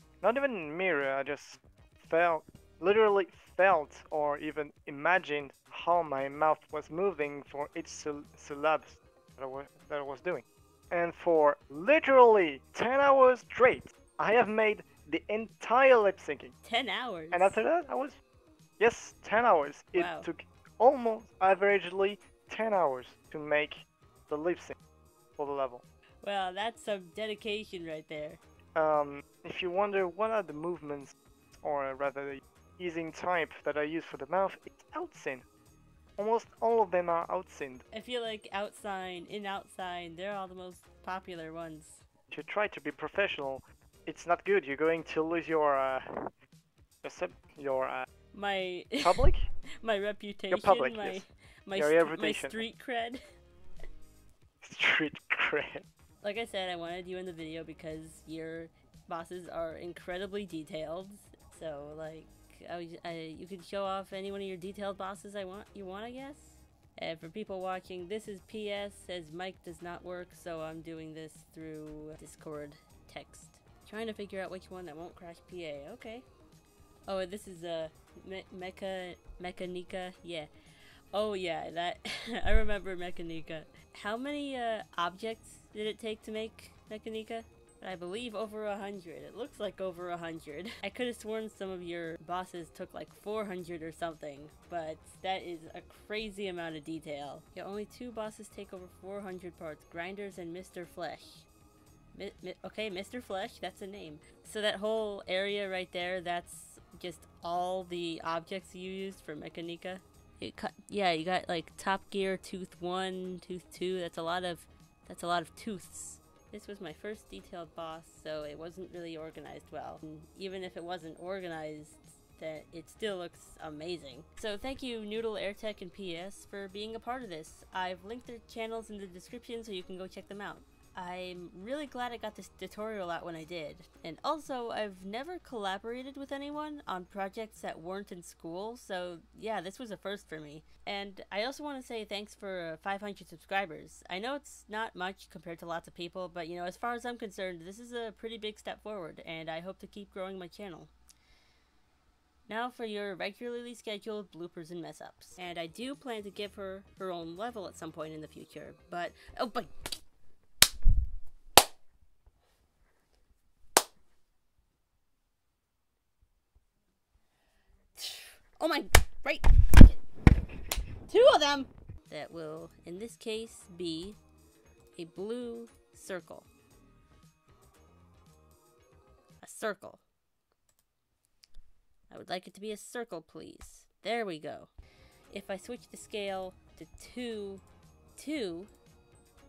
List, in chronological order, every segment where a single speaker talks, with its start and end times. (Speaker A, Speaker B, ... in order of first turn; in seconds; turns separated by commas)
Speaker A: 0.2-16.5, Speaker B: 16.6-17.6, Speaker A: 17.3-18.2, Speaker A: 18.8-24.8, Speaker B: 19.9-20.3, Speaker A: 25.4-25.8, Speaker B: 26.2-28.4, Speaker A: 28.8-35.5, Speaker A: 36.2-37.8, Speaker B: 37.9-42.0, Speaker A: 42.3-46.3, Speaker A: 47.0-48.1, Speaker B: 48.3-53.2, Speaker A: 49.0-49.5, Speaker A: 50.5-52.6, Speaker A: 54.6-55.9, Speaker B: 56.2-76.3, Speaker B: 77.1-80.5, Speaker B: 81.1-101.5, Speaker B: 102.1-150.9, Speaker B: 152.5-159.7, Speaker B: 168.0-170.0, Speaker B: 171.1-174.2, Speaker B: 175.0-176.5, Speaker B: 179.4-180.0, Speaker B: 182.1-184.7, Speaker B: 185.3-187.6, Speaker B: 188.2-188.7